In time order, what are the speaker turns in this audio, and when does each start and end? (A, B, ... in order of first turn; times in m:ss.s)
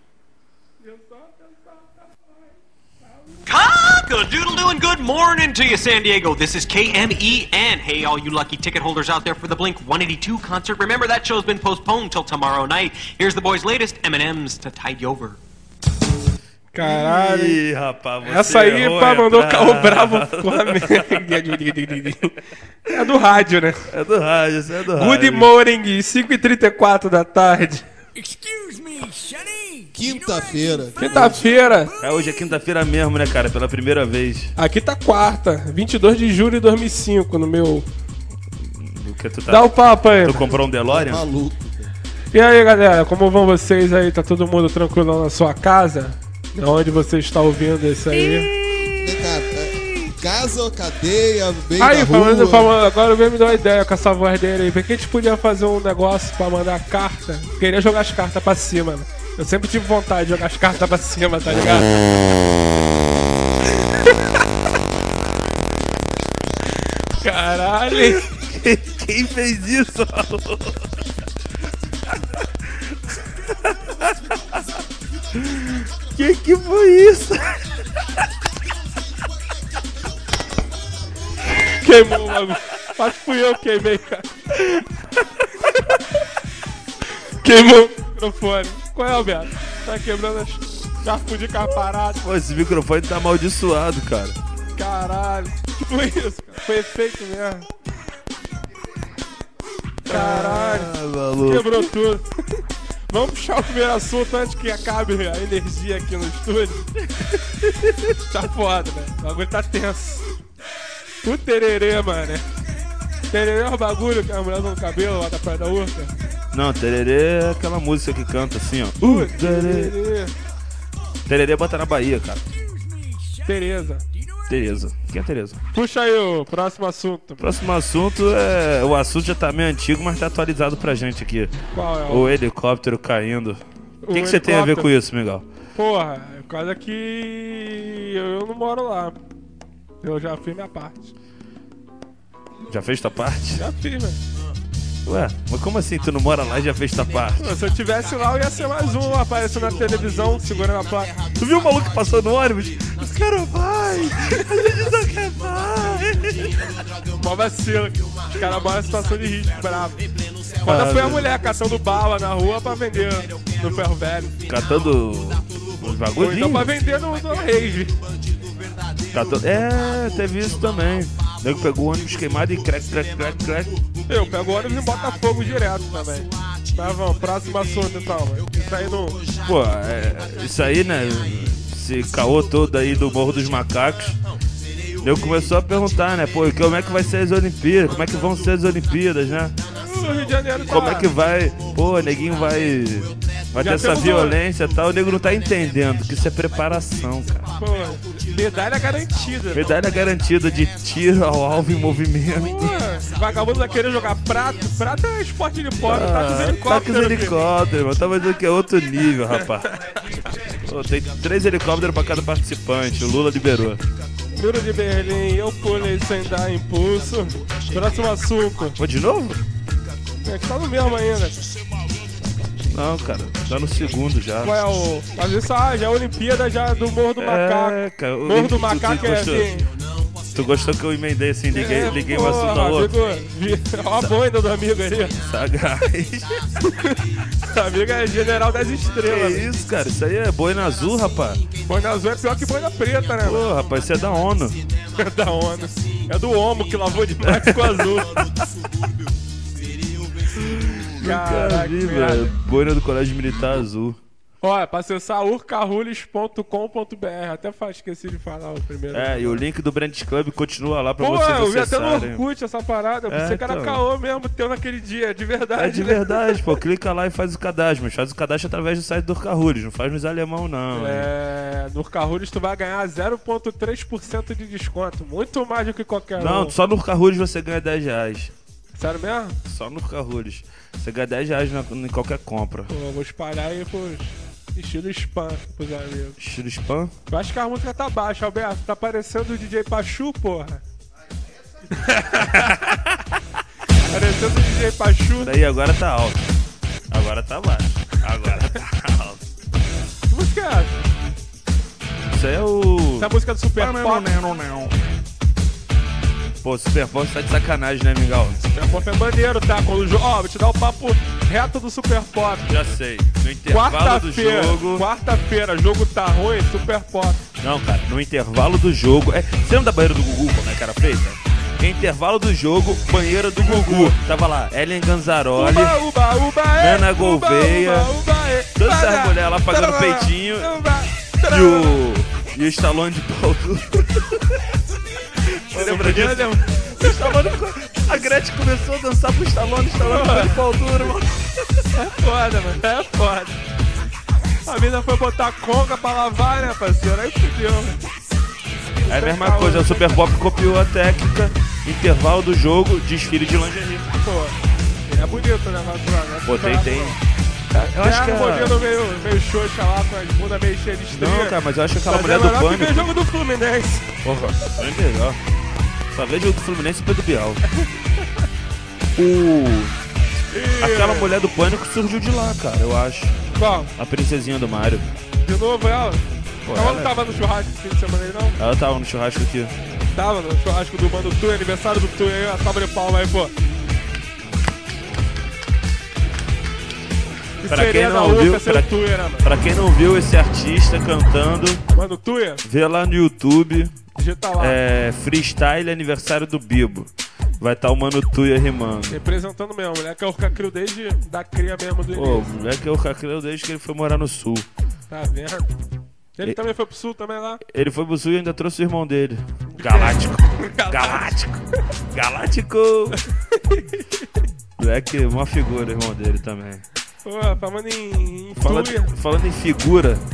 0:00.8-0:02.2 A
0:03.5-0:15.4 B
0:16.7-0:17.6 A
0:16.8-0:21.5 C
0:18.2-0:22.4 A
0:22.9-0:23.9 A
0:23.9-0:25.5 C
0:24.9-0:27.8 A
0:28.2-0:30.9 D
0:29.9-0:31.4 E
0:31.0-0:31.9 A
0:32.0-0:34.5 C
0:34.6-0:37.8 A
0:38.6-0:41.2 C
0:39.5-0:40.4 A
0:40.8-0:41.9 E
0:42.3-0:48.5 A
0:48.6-0:48.9 C
0:48.8-0:52.7 E
0:51.8-1:01.9 A
1:03.8-1:04.2 A
1:07.2-1:08.2 A
1:07.9-1:10.8 C
1:13.6-1:14.6 C
1:15.3-1:17.6 C
1:21.8-1:24.3 A
1:27.4-1:32.2 A
1:32.2-1:34.4 C
1:34.8-1:37.7 A
1:40.1-1:41.8 C
1:40.1-1:40.9 A
1:41.4-1:46.9 A
1:48.1-1:50.3 A
1:51.2-1:52.5 A
1:53.3-1:56.1 A
1:56.5-1:59.9 C
1:59.0-2:00.3 A
2:01.3-2:02.4 C
2:02.5-2:03.6 D
2:03.4-2:04.0 A
2:04.1-2:04.5 D
2:04.5-2:05.6 C
2:05.7-2:07.4 A
2:07.4-2:11.6 C
2:11.7-2:12.3 A
2:12.1-2:15.4 C
2:14.0-2:14.9 A
2:15.7-2:19.1 A
2:20.0-2:21.1 A
2:22.7-2:23.6 C
2:23.6-2:24.2 A
2:25.0-2:27.5 C
2:27.4-2:31.2 A
2:31.4-2:36.6 C
2:37.2-2:40.0 A
2:40.6-2:44.4 A
2:40.6-2:41.3 C
2:44.5-2:46.7 C
2:46.2-2:48.0 A
2:49.1-2:53.8 C
2:54.1-2:59.2 A
2:59.4-3:04.2 C
3:05.0-3:09.5 C
3:09.7-3:11.1 A
3:10.6-3:17.5 C
3:13.6-3:14.4 A
3:17.5-3:19.7 A
3:19.5-3:22.8 C
3:22.4-3:27.4 A
3:25.8-3:29.7 C
3:29.3-3:30.0 A
3:30.6-3:33.8 C
3:34.3-3:38.8 A
3:38.8-3:39.4 C
3:40.2-3:41.4 A
3:42.7-3:44.6 C
3:44.4-3:49.7 A
3:47.2-3:49.5 C
3:50.3-3:52.9 C
3:51.5-3:55.2 A
3:55.2-3:56.4 C
3:56.6-3:59.5 A
3:59.0-4:01.4 C
4:01.6-4:03.5 A
4:03.2-4:04.6 C
4:04.9-4:08.5 A
4:07.2-4:08.2 C
4:10.3-4:14.0 C
4:11.0-4:12.3 A
4:14.4-4:19.4 A
4:18.9-4:22.2 C
4:21.0-4:26.4 A
4:23.1-4:23.8 C
4:25.6-4:31.1 C
4:30.7-4:36.5 A
4:36.2-4:38.3 C
4:38.8-4:39.4 A
4:39.4-4:42.7 C
4:42.7-4:46.2 A
4:46.2-4:46.9 C
4:47.1-4:50.6 A
4:51.7-4:52.8 A
4:52.2-4:53.0 C
4:53.9-4:55.3 A
4:55.2-4:56.3 C
4:56.9-4:59.2 C
5:00.1-5:00.8 A
5:02.1-5:04.8 C
5:03.0-5:04.1 A
5:06.4-5:08.5 C
5:08.5-5:12.6 A
5:12.5-5:14.9 C
5:13.5-5:17.2 A
5:17.4-5:25.8 C
5:23.4-5:24.0 A
5:25.3-5:31.8 A
5:26.6-5:27.9 C
5:28.6-5:30.5 C
5:31.3-5:34.3 C
5:35.2-5:41.2 C
5:35.5-5:37.3 A
5:39.8-5:40.4 A
5:41.7-5:43.4 A
5:44.4-5:47.7 A
5:48.9-5:50.0 A
5:48.9-5:53.9 C
5:54.0-5:54.4 A
5:54.9-5:57.0 A
5:56.2-5:57.0 C
5:57.5-5:58.6 C
5:57.8-6:04.0 A
6:00.9-6:02.9 C
6:04.0-6:05.2 C
6:05.9-6:07.4 C
6:09.0-6:09.8 C
6:10.3-6:11.1 A
6:10.6-6:13.2 C
6:13.3-6:13.7 A
6:13.8-6:14.9 C
6:15.2-6:16.0 A
6:16.4-6:16.9 C
6:16.5-6:18.4 A
6:18.4-6:19.5 C
6:19.9-6:23.3 A
6:27.4-6:29.2 A
6:27.4-6:28.7 C
6:29.2-6:31.6 C
6:31.7-6:32.4 A
6:32.4-6:33.8 C
6:33.9-6:34.6 A
6:34.4-6:39.0 C
6:38.9-6:42.3 A
6:41.9-6:44.5 C
6:44.9-6:45.5 A
6:46.2-6:47.4 A
6:47.4-6:51.4 C
6:49.5-6:51.2 A
6:51.9-6:53.0 C
6:53.3-6:54.0 A
6:54.6-6:56.6 C
6:57.0-6:58.9 A
6:58.4-7:00.0 C